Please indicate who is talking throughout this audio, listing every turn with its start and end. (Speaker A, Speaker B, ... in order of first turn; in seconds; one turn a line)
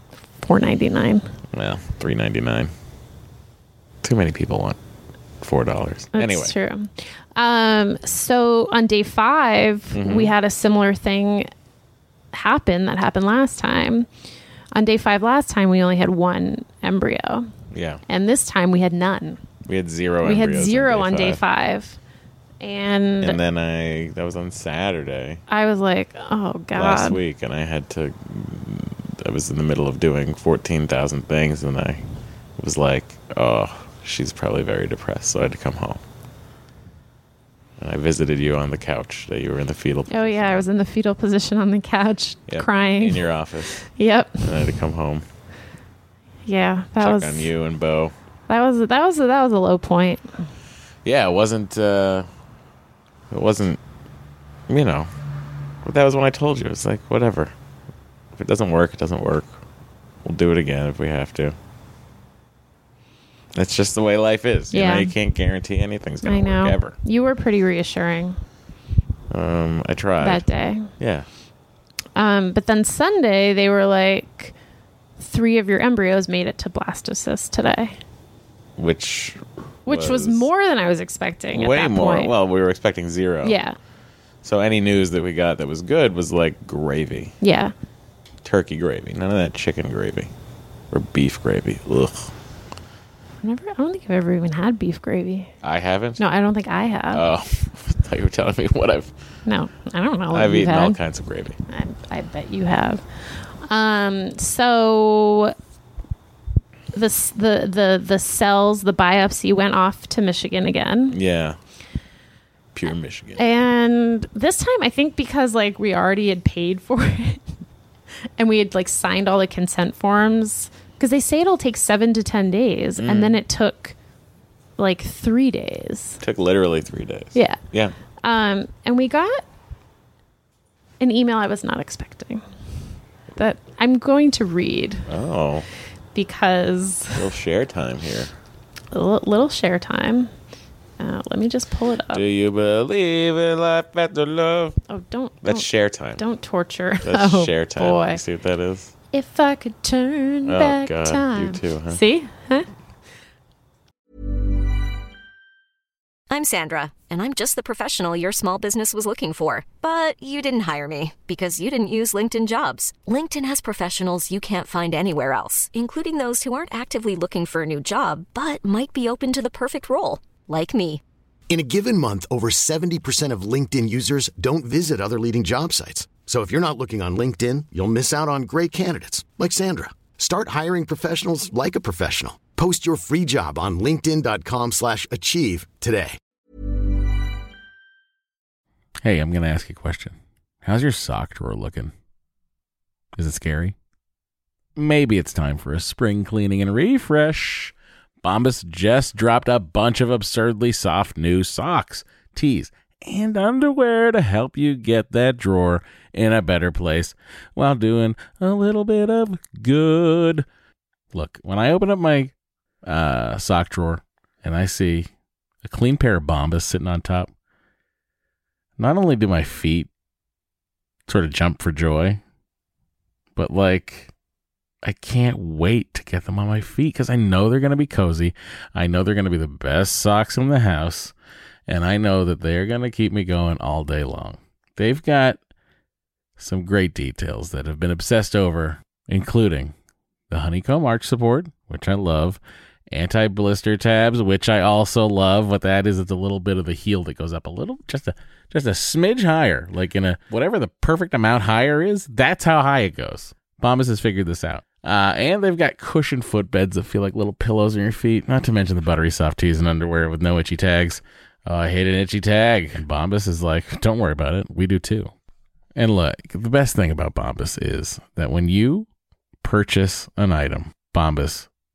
Speaker A: 0.4-1.3
Speaker B: 1.5-2.7
Speaker B: 4.0-4.8
Speaker B: 5.4-6.5
Speaker A: 6.1-11.5
Speaker B: 9.9-10.3
Speaker A: 12.3-14.1
Speaker A: 14.7-17.5
Speaker B: 17.7-18.0
Speaker A: 18.1-19.4
Speaker B: 19.7-21.4
Speaker A: 20.2-22.0
Speaker A: 22.6-23.4
Speaker B: 23.2-25.4
Speaker A: 25.5-27.2
Speaker B: 26.7-32.0
Speaker B: 32.6-36.0
Speaker B: 37.8-40.6
Speaker A: 40.1-44.5
Speaker B: 42.5-43.8
Speaker B: 44.4-45.2
Speaker A: 46.5-47.5
Speaker B: 47.0-48.1
Speaker A: 48.5-50.3
Speaker B: 51.0-52.3
Speaker B: 53.3-53.8
Speaker B: 54.7-55.1
Speaker B: 55.8-57.5
Speaker B: 58.4-59.5
Speaker B: 60.2-61.5
Speaker B: 63.5-66.9
Speaker A: 64.7-65.1
Speaker A: 66.2-68.4
Speaker B: 69.3-70.4
Speaker A: 70.2-70.9
Speaker B: 71.0-71.3
Speaker A: 72.2-74.5
Speaker A: 75.2-78.0
Speaker B: 78.8-80.5
Speaker A: 79.8-82.3
Speaker B: 81.5-83.6
Speaker A: 83.4-83.8
Speaker B: 84.4-87.3
Speaker A: 87.4-87.7
Speaker B: 88.4-90.3
Speaker B: 90.9-92.3
Speaker A: 93.4-95.5
Speaker B: 95.6-96.2
Speaker A: 96.2-97.2
Speaker B: 97.1-99.1
Speaker A: 99.5-101.0
Speaker B: 100.3-101.6
Speaker A: 101.7-103.0
Speaker A: 103.6-105.5
Speaker A: 106.9-111.2
Speaker B: 111.1-111.6
Speaker B: 112.7-113.4
Speaker A: 113.4-117.5
Speaker A: 118.4-123.9
Speaker B: 123.0-123.4
Speaker A: 124.8-126.2
Speaker B: 126.2-127.9
Speaker A: 127.3-127.6
Speaker A: 128.2-129.4
Speaker A: 131.0-132.4
Speaker A: 133.3-135.1
Speaker B: 135.1-135.7
Speaker A: 136.1-137.3
Speaker B: 137.1-138.3
Speaker A: 138.9-140.3
Speaker A: 141.0-142.2
Speaker B: 142.1-144.8
Speaker A: 144.9-145.7
Speaker B: 145.4-146.2
Speaker A: 146.2-148.2
Speaker B: 147.0-148.9
Speaker A: 149.1-152.7
Speaker B: 150.4-152.0
Speaker C: 156.3-171.0
Speaker D: 171.5-186.2
Speaker E: 189.0-191.9
Speaker E: 193.2-193.7
Speaker E: 194.8-210.4
Speaker E: 211.1-212.3
Speaker E: 212.8-215.1
Speaker E: 215.6-217.3
Speaker E: 218.8-219.9
Speaker E: 221.1-222.2
Speaker E: 223.3-224.1
Speaker E: 224.8-231.1
Speaker E: 231.7-235.4
Speaker E: 236.4-239.7
Speaker E: 240.3-242.4
Speaker E: 242.9-265.1
Speaker E: 265.8-268.9
Speaker E: 269.4-271.5